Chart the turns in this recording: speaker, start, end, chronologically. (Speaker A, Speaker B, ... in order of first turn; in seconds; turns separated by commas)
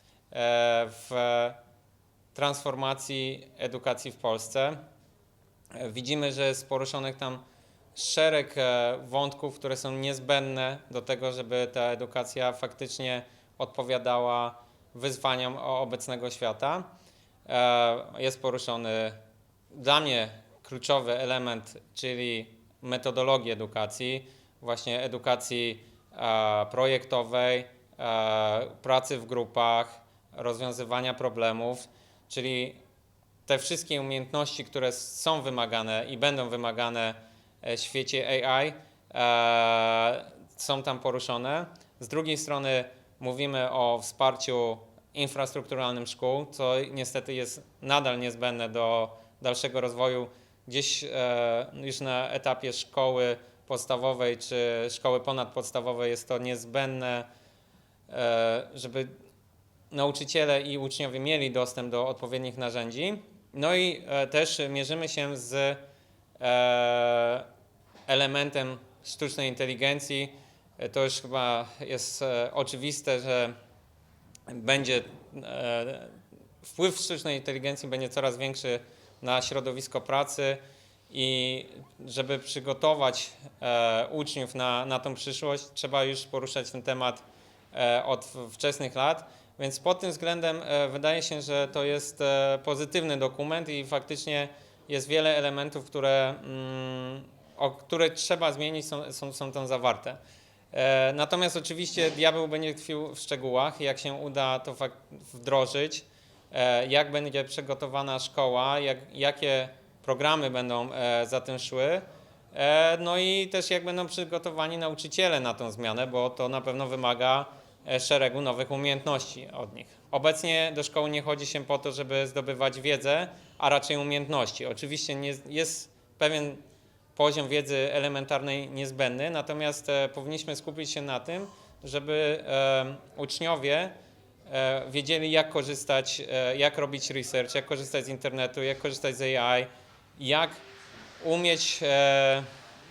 Speaker A: 0.3-1.6, Speaker A: 2.3-4.8, Speaker A: 5.7-7.4, Speaker A: 7.9-16.9, Speaker A: 17.4-19.2, Speaker A: 19.7-32.8, Speaker A: 33.5-57.3, Speaker A: 58.1-59.1, Speaker A: 59.9-65.8, Speaker A: 66.4-67.5, Speaker A: 68.1-73.5, Speaker A: 74.5-100.2, Speaker A: 100.7-112.0, Speaker A: 112.5-126.6, Speaker A: 127.1-133.9, Speaker A: 134.5-140.6, Speaker A: 141.2-142.5